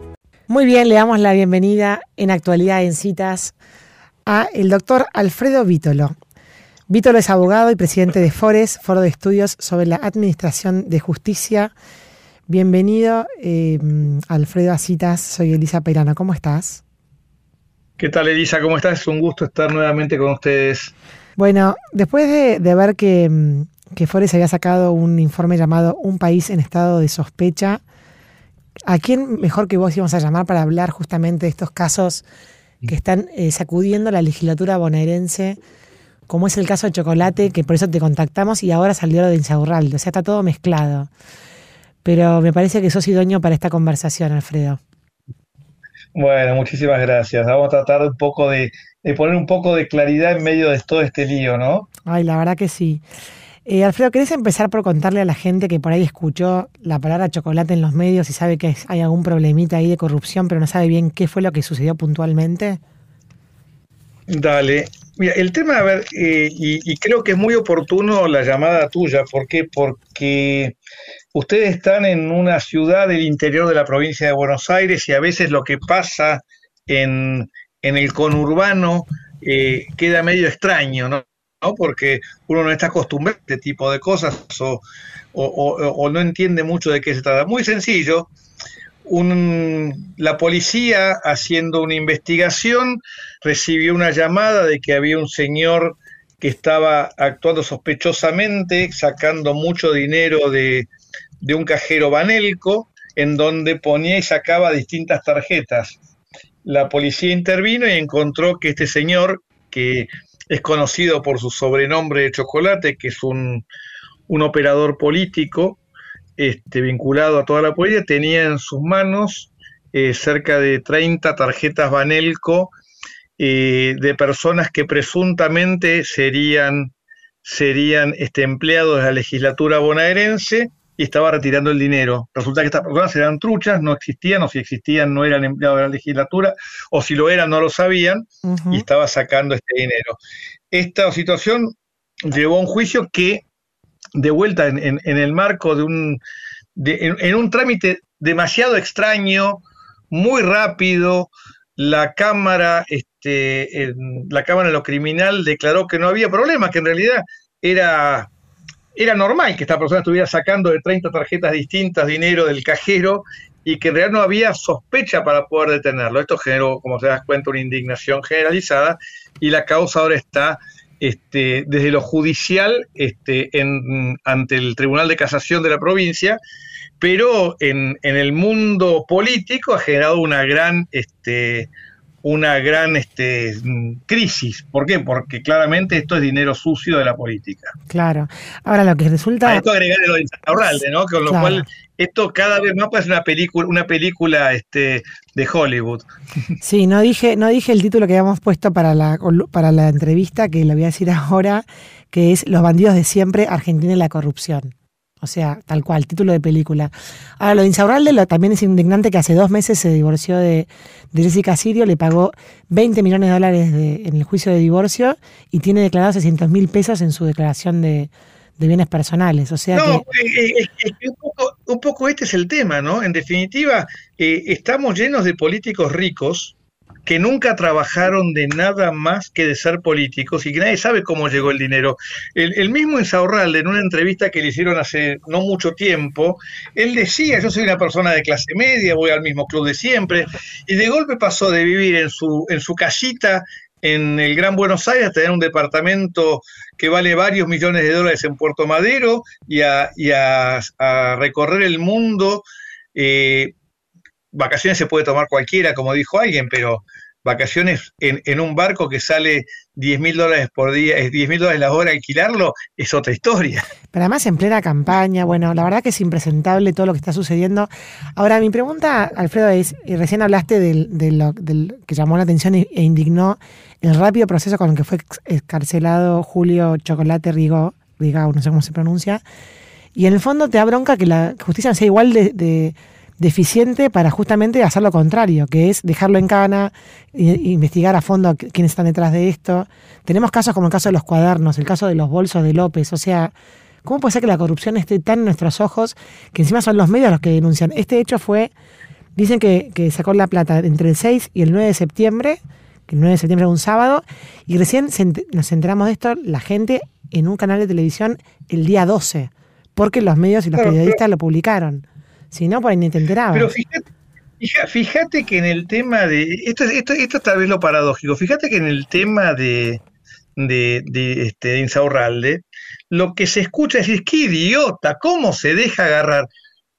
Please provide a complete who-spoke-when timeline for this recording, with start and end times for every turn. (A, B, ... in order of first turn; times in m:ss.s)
0:00.5-0:03.6 A
0:04.2-0:06.2 A
0:06.9-0:11.7 A
0:12.5-0:16.8 A
0:18.0-0:20.9 B
0:21.4-0:27.8 A
0:28.9-0:32.2 A
0:32.8-0:35.6 A
0:36.3-0:41.1 A
0:42.0-0:44.8 A
0:46.2-0:51.9 B
0:52.0-0:53.0 A
0:53.6-1:02.8 A
1:04.3-1:10.8 B
1:11.3-1:28.3 B
1:29.0-1:40.9 B
1:41.4-1:46.0 B
1:46.6-1:53.6 B
1:54.3-1:55.8 B
1:56.4-2:02.7 B
2:03.4-2:06.9 B
2:07.4-2:20.2 B
2:18.4-2:18.8 A
2:20.7-2:21.8 B
2:22.3-2:23.4 B
2:24.2-2:26.2 B
2:26.8-2:38.3 B
2:39.0-2:56.4 B
2:57.0-3:01.7 B
3:02.2-3:07.7 B
3:07.9-3:09.6 A
3:09.4-3:16.1 B
3:10.6-3:11.7 A
3:16.6-3:40.0 A
3:39.7-4:13.5 B
4:14.3-4:23.6 B
4:23.9-4:39.2 A
4:39.9-4:58.5 A
4:59.1-5:13.5 A
5:10.5-5:11.0 B
5:13.3-5:13.8 B
5:14.4-5:19.8 B
5:20.4-5:26.3 B